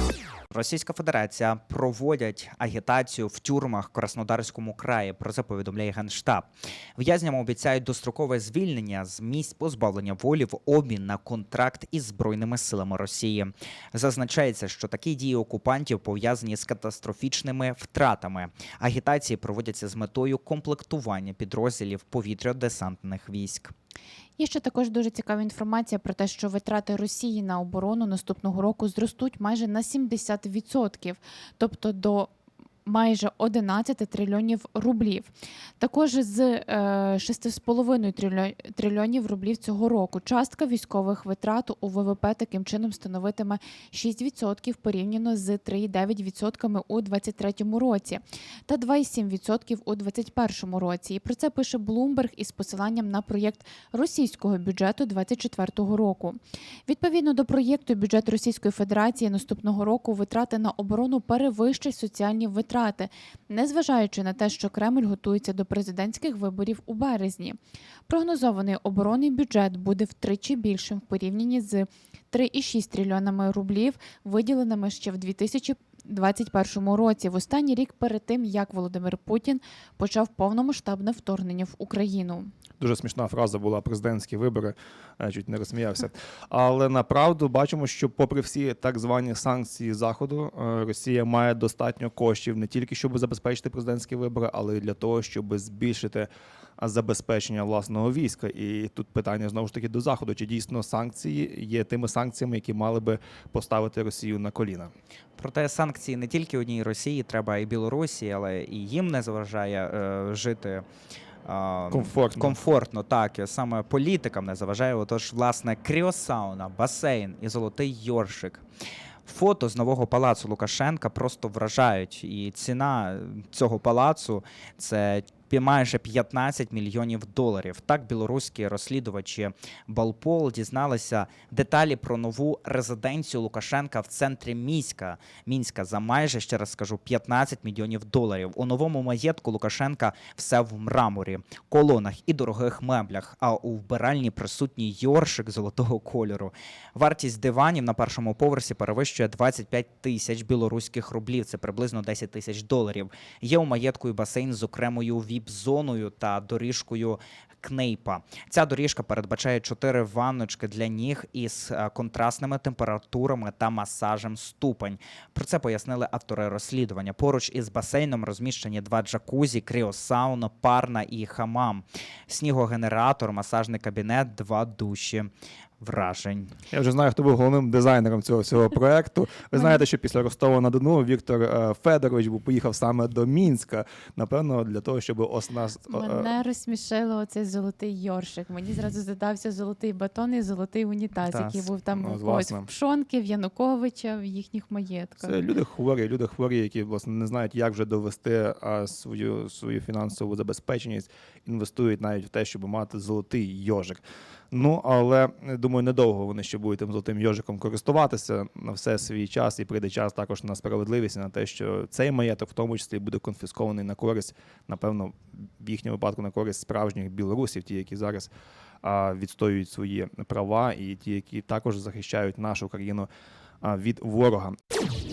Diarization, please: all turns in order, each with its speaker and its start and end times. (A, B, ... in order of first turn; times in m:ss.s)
0:00.5-0:23.7 A
0:24.4-0:32.3 B
0:32.8-1:22.5 B
1:22.8-1:44.9 C
1:45.4-1:50.8 A
1:51.4-1:58.6 A
1:51.9-1:52.6 C
1:59.2-2:55.3 A
2:55.8-2:56.5 A
2:56.7-3:06.3 C
3:05.9-3:15.4 B
3:11.2-3:12.7 C
3:15.2-3:38.3 C
3:38.8-3:43.1 C
3:43.6-3:44.6 C